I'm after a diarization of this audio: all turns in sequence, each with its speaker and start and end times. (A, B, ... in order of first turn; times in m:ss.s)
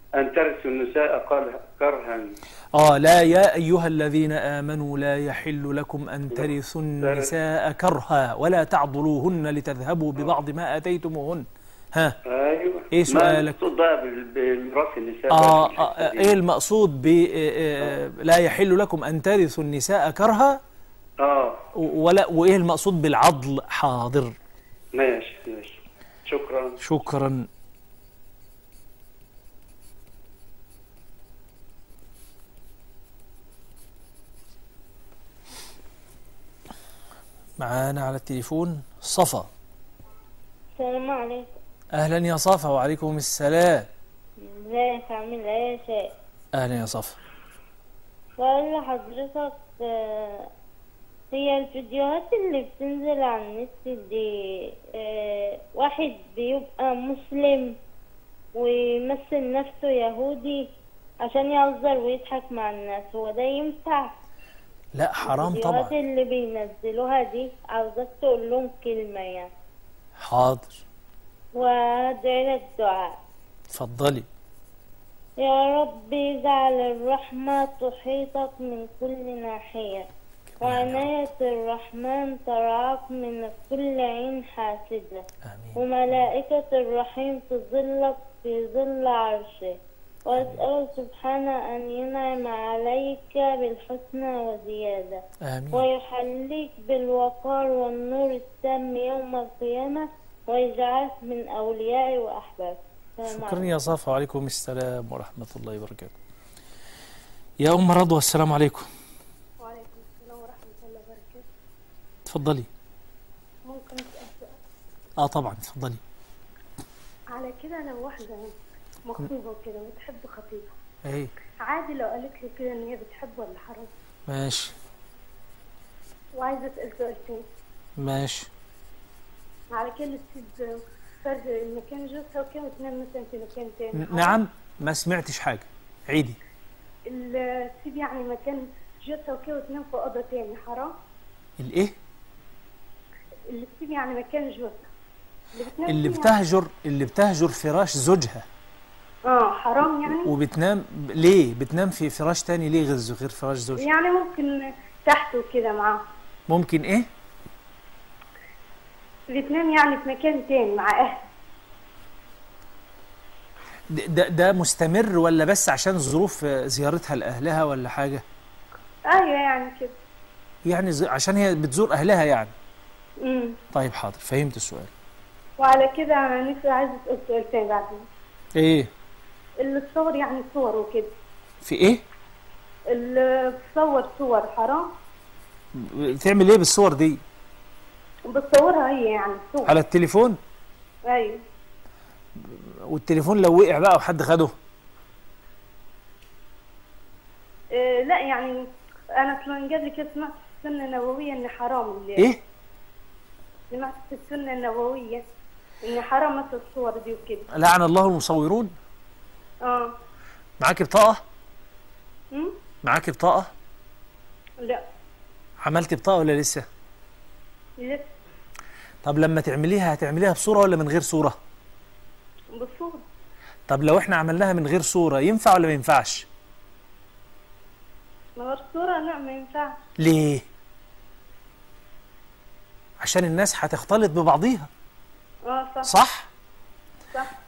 0:00.2-0:02.4 A
0:02.7-0:12.2 B
0:07.0-0:07.3 A
0:12.3-0:16.4 A
0:12.9-0:13.6 B
0:15.3-0:20.6 B
0:21.2-0:21.6 A
0:21.8-0:24.3 B
0:24.9-0:26.8 A
0:26.8-0:27.5 B
0:37.6-0:39.5 B
0:40.8-0:41.5 C
0:41.9-0:43.9 B
0:44.4-0:46.1 C
0:46.5-0:47.2 B
0:48.4-0:50.5 C
0:51.3-0:57.8 C
0:58.5-1:00.7 C
1:01.2-1:04.1 C
1:05.0-1:05.9 B
1:05.2-1:09.5 C
1:10.2-1:10.8 B
1:11.5-1:13.2 C
1:13.7-1:14.3 B
1:15.4-1:20.1 C
1:20.5-1:21.1 B
1:20.6-1:43.8 C
1:25.4-1:25.8 B
1:30.4-1:30.6 B
1:35.4-1:35.9 B
1:43.3-1:46.1 B
1:47.6-1:48.9 B
1:49.6-1:51.5 D
1:52.3-1:52.7 B
1:53.6-1:54.6 D
1:55.2-1:56.0 B
1:57.3-2:00.8 D
2:01.0-2:01.3 B
2:01.6-2:03.9 D
2:04.3-2:04.8 B
2:06.4-2:07.4 D
2:08.0-2:08.5 B
2:09.7-2:14.4 D
2:14.0-2:16.4 B
2:17.1-2:20.9 D
2:21.6-2:22.0 B
2:23.5-2:24.9 D
2:25.6-2:26.3 D
2:25.9-2:28.5 B
2:29.3-2:30.3 D
2:30.1-2:33.9 B
2:33.8-2:36.0 D
2:36.5-2:37.1 B
2:39.3-2:41.3 D
2:43.9-2:48.2 B
2:49.1-2:49.9 D
2:50.7-2:52.5 B
2:53.2-2:53.6 D
2:53.7-2:54.9 B
2:55.6-2:58.1 D
2:58.6-2:58.9 B
2:59.6-3:01.2 D
3:01.6-3:02.0 B
3:02.9-3:04.9 D
3:05.8-3:07.2 B
3:08.3-3:09.7 D
3:09.6-3:10.4 B
3:11.1-3:11.4 D
3:12.4-3:14.5 B
3:17.7-3:18.6 D
3:19.2-3:22.3 D
3:23.7-3:25.2 D
3:25.8-3:27.5 D
3:27.5-3:28.7 B
3:29.6-3:29.9 D
3:30.6-3:31.2 B
3:32.8-3:33.5 B
3:35.6-3:36.7 B
3:37.8-3:38.0 D
3:39.0-3:41.4 B
3:42.6-3:43.0 D
3:43.7-3:46.3 B
3:48.4-3:49.8 D
3:50.0-3:50.4 B
3:53.0-3:54.7 B
3:55.5-3:55.9 D
3:55.8-3:56.3 B